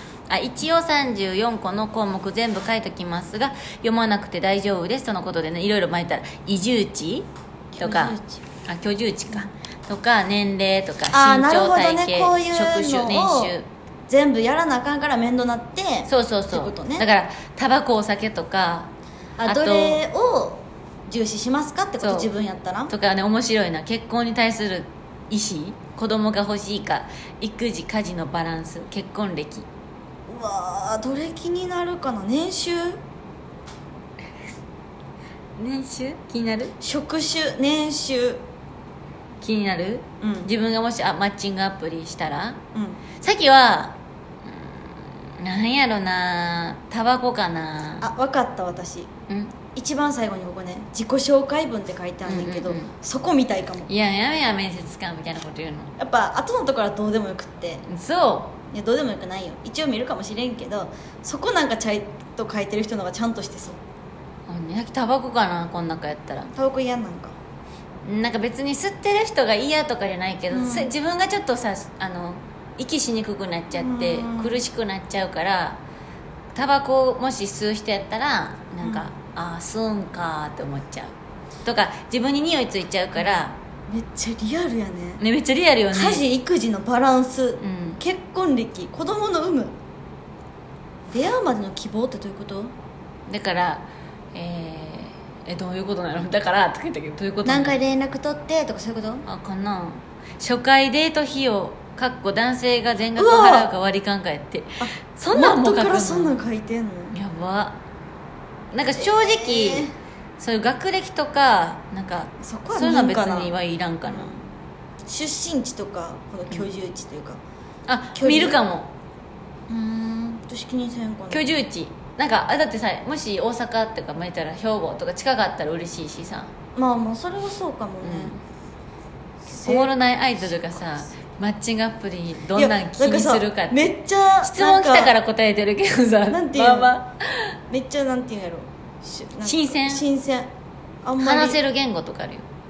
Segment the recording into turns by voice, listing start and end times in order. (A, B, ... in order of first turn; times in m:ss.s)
0:00.3-0:13.7 A
0:07.8-0:08.4 B
0:11.1-0:13.6 B
0:14.1-0:17.1 B
0:16.1-0:18.9 A
0:19.4-0:22.9 B
0:19.4-0:20.0 A
0:22.0-0:22.3 A
0:22.9-0:29.7 A
0:30.3-0:33.0 B
0:35.6-0:36.8 A
0:36.8-0:38.4 B
0:39.4-0:42.6 A
0:40.2-0:40.5 B
0:42.7-0:43.0 B
0:43.2-0:48.1 A
0:48.0-0:49.1 B
0:49.3-0:49.6 A
0:49.8-0:53.9 B
0:52.2-0:52.9 A
0:53.9-0:55.9 A
0:56.0-0:57.8 B
0:57.9-0:58.6 A
0:58.7-1:03.8 B
1:04.5-1:06.5 A
1:06.5-1:07.4 B
1:08.0-1:15.8 A
1:10.5-1:10.9 B
1:13.7-1:14.6 B
1:16.5-1:21.1 A
1:18.8-1:19.1 B
1:21.6-1:23.6 A
1:23.9-1:25.2 B
1:25.2-1:26.2 A
1:25.9-1:29.8 B
1:27.6-1:28.0 A
1:31.1-1:32.7 B
1:33.3-1:37.8 A
1:37.4-1:39.2 B
1:39.2-1:46.4 A
1:43.2-1:43.7 B
1:44.8-1:47.2 B
1:47.1-1:47.8 A
1:48.7-1:54.3 A
1:49.0-1:49.9 B
1:52.4-1:54.4 B
1:55.1-1:57.4 B
1:57.9-1:58.9 A
1:58.2-1:58.6 B
1:59.7-2:01.5 B
2:01.3-2:06.5 A
2:06.8-2:08.4 B
2:08.0-2:08.4 A
2:09.4-2:10.0 B
2:09.6-2:17.6 A
2:12.6-2:15.2 B
2:16.3-2:17.0 B
2:17.7-2:20.5 B
2:19.4-2:20.0 A
2:21.0-2:21.6 B
2:21.2-2:22.4 A